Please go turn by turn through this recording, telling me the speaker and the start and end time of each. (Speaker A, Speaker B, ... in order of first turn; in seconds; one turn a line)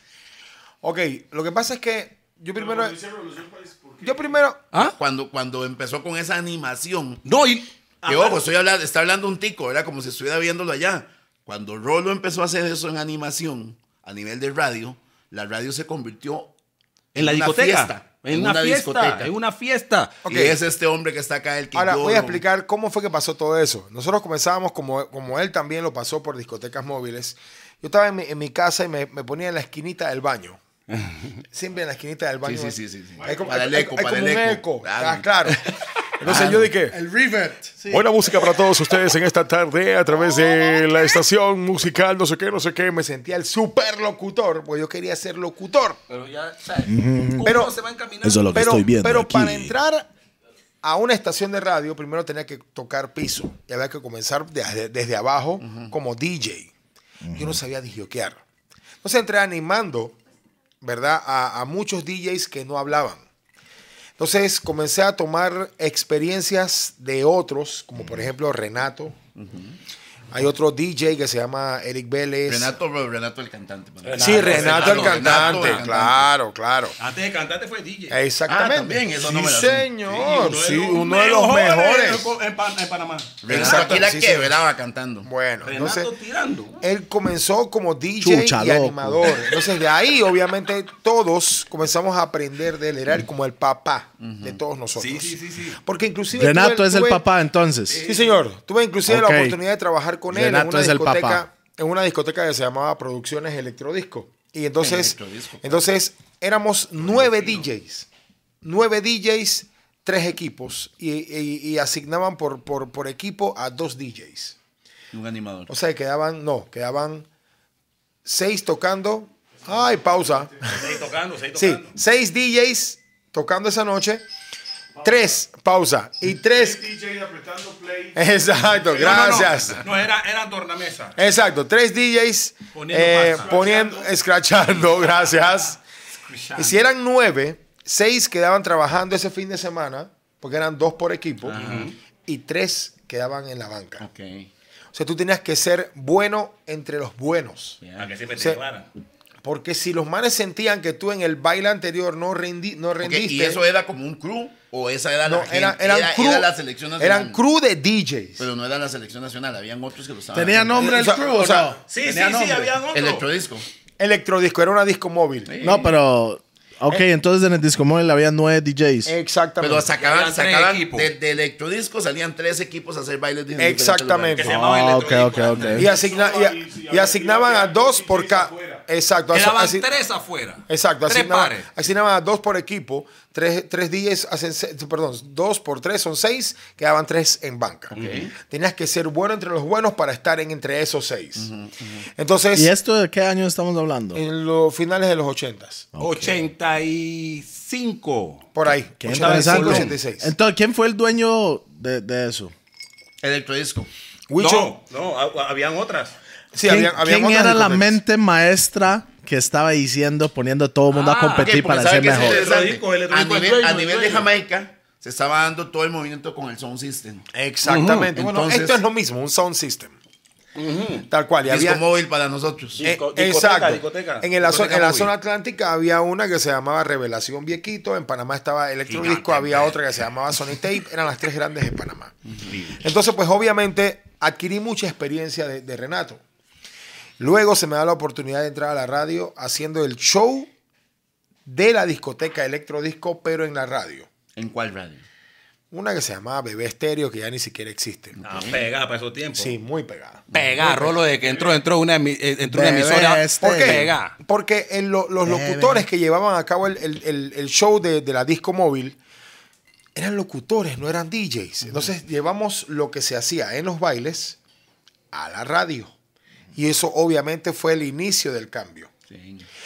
Speaker A: 0.8-3.0
Speaker B: 2.5-4.4
Speaker A: 4.0-4.6
Speaker C: 4.8-7.2
Speaker D: 7.2-8.4
Speaker C: 8.1-16.5
Speaker C: 17.1-19.3
Speaker D: 17.1-20.2
Speaker A: 20.2-20.6
Speaker C: 20.3-22.4
Speaker A: 21.7-30.6
Speaker D: 30.9-31.3
Speaker A: 31.5-35.6
Speaker C: 32.4-35.6
Speaker B: 33.2-33.6
Speaker A: 36.2-37.0
Speaker E: 36.2-38.1
Speaker A: 37.9-46.0
Speaker D: 46.1-48.9
Speaker E: 46.9-47.5
Speaker A: 47.4-47.7
Speaker E: 48.2-49.8
Speaker A: 48.5-50.1
Speaker A: 50.8-56.7
Speaker C: 55.6-55.9
Speaker E: 57.2-57.6
Speaker A: 57.3-58.4
Speaker A: 59.0-60.2
Speaker A: 60.8-63.2
Speaker A: 64.2-69.2
Speaker C: 69.3-69.8
Speaker A: 70.3-72.8
Speaker C: 72.5-76.3
Speaker D: 74.0-75.8
Speaker A: 74.2-77.0
Speaker D: 77.0-78.2
Speaker A: 78.1-82.3
Speaker C: 78.5-80.2
Speaker D: 80.1-84.1
Speaker C: 83.4-85.3
Speaker A: 83.5-84.5
Speaker A: 85.2-86.1
Speaker D: 85.6-86.8
Speaker A: 86.8-97.2
Speaker E: 88.2-89.4
Speaker C: 94.2-94.6
Speaker D: 95.0-95.8
Speaker E: 96.3-98.0
Speaker D: 97.9-98.4
Speaker A: 98.0-108.1
Speaker E: 99.1-99.6
Speaker E: 100.3-101.5
Speaker C: 104.8-105.9
Speaker C: 107.0-107.7
Speaker A: 108.6-114.6
Speaker C: 115.1-115.7
Speaker A: 115.7-117.3
Speaker A: 118.2-120.7
Speaker B: 119.5-121.1
Speaker D: 120.7-121.9
Speaker A: 121.5-124.2
Speaker B: 125.0-125.4
Speaker A: 125.0-126.8
Speaker B: 126.5-129.6
Speaker A: 128.2-129.8
Speaker D: 129.0-131.2
Speaker A: 131.2-135.8
Speaker D: 132.7-133.6
Speaker B: 133.3-134.2
Speaker D: 136.1-136.8
Speaker A: 136.6-141.6
Speaker C: 141.4-141.9
Speaker D: 141.6-141.9
Speaker A: 142.2-144.1
Speaker C: 144.0-144.5
Speaker A: 144.9-147.8
Speaker C: 147.8-148.1
Speaker D: 148.0-148.9
Speaker A: 149.4-153.6
Speaker C: 153.0-157.4
Speaker A: 155.2-158.4
Speaker C: 158.4-161.0
Speaker E: 160.3-162.8
Speaker A: 160.8-161.8
Speaker D: 161.9-163.2
Speaker C: 162.9-163.7
Speaker A: 164.0-165.5
Speaker C: 165.5-165.9
Speaker E: 165.6-169.2
Speaker A: 169.1-169.9
Speaker C: 169.6-174.6
Speaker D: 170.0-171.1
Speaker A: 173.6-174.6
Speaker D: 174.4-175.9
Speaker E: 174.5-175.9
Speaker A: 175.8-179.9
Speaker B: 175.8-178.8
Speaker D: 179.3-181.7
Speaker A: 180.7-191.5
Speaker C: 187.9-188.3
Speaker D: 187.9-188.3
Speaker C: 191.4-192.1
Speaker A: 192.2-192.7
Speaker E: 192.5-194.2
Speaker A: 194.1-195.9
Speaker E: 195.9-196.4
Speaker D: 196.0-198.5
Speaker A: 198.5-200.3
Speaker E: 199.0-202.5
Speaker D: 199.1-199.9
Speaker C: 203.2-203.9
Speaker A: 204.3-204.7
Speaker D: 204.4-206.2
Speaker A: 206.5-208.0
Speaker E: 206.6-212.5
Speaker D: 210.9-214.3
Speaker C: 211.4-217.2
Speaker A: 217.3-220.0
Speaker D: 217.7-218.1
Speaker C: 218.1-218.8
Speaker D: 220.6-221.1
Speaker A: 221.1-221.8
Speaker C: 221.5-222.8
Speaker D: 222.8-225.1
Speaker A: 222.8-232.2
Speaker D: 228.9-229.8
Speaker D: 232.4-232.8
Speaker A: 232.7-236.2
Speaker A: 237.2-240.5
Speaker A: 241.5-244.1
Speaker C: 244.4-245.0
Speaker A: 245.7-248.2
Speaker C: 248.2-248.6
Speaker D: 248.2-249.6
Speaker A: 249.4-251.0
Speaker D: 250.3-254.2
Speaker E: 252.5-253.9
Speaker A: 253.4-259.0
Speaker E: 255.2-255.9
Speaker A: 260.0-264.4
Speaker A: 265.1-265.9
Speaker A: 266.5-268.9
Speaker C: 269.1-269.4